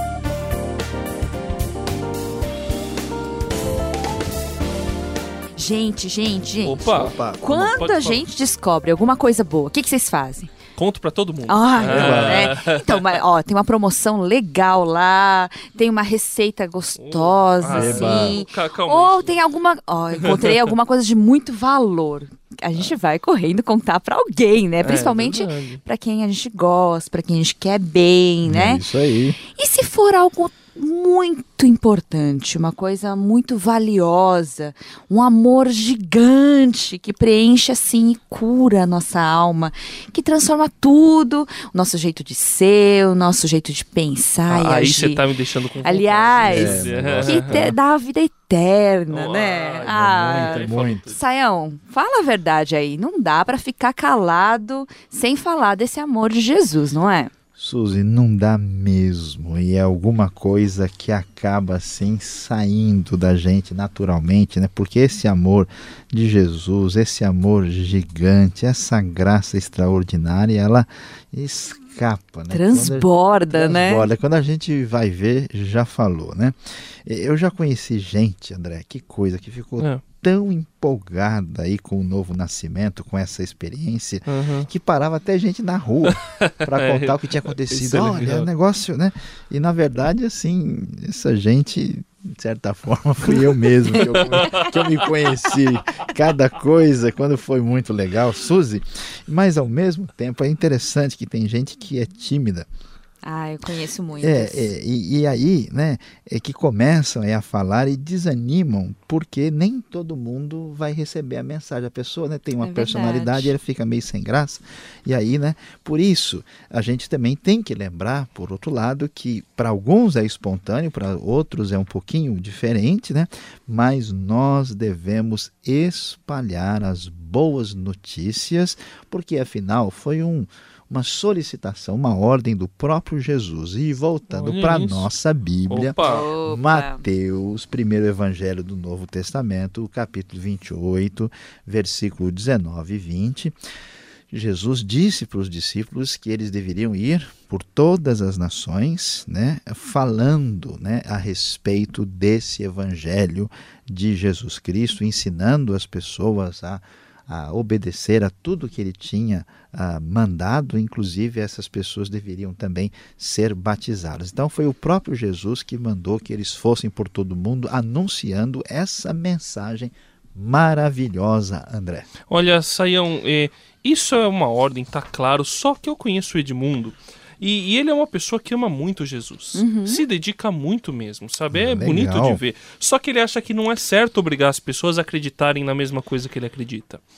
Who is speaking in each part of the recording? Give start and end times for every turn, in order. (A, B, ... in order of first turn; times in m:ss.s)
0:05.6-0:10.5 A
0:06.6-0:08.2 B
0:06.9-0:07.5 C
0:10.7-0:13.1 B
0:11.4-0:28.8 A
0:11.8-0:12.5 C
0:17.0-0:19.4 B
0:17.7-0:18.4 C
0:20.1-0:20.6 B
0:24.8-0:25.8 B
0:28.4-0:29.4 C
0:29.5-0:45.2 A
0:44.5-0:47.7 B
0:45.8-0:57.3 A
0:46.4-0:47.8 C
0:49.1-0:51.2 B
0:50.2-0:51.1 C
0:57.6-1:42.7 C
1:12.5-1:14.1 A
1:24.3-1:24.7 B
1:26.1-1:28.5 B
1:33.9-1:34.7 B
1:43.2-1:44.7 A
1:44.2-2:23.6 C
1:52.6-1:53.5 A
2:14.3-2:15.1 B
2:15.7-2:16.2 B
2:16.0-2:17.0 A
2:24.3-2:52.1 C
2:52.3-3:07.0 B
2:59.5-3:00.0 A
3:01.5-3:02.4 C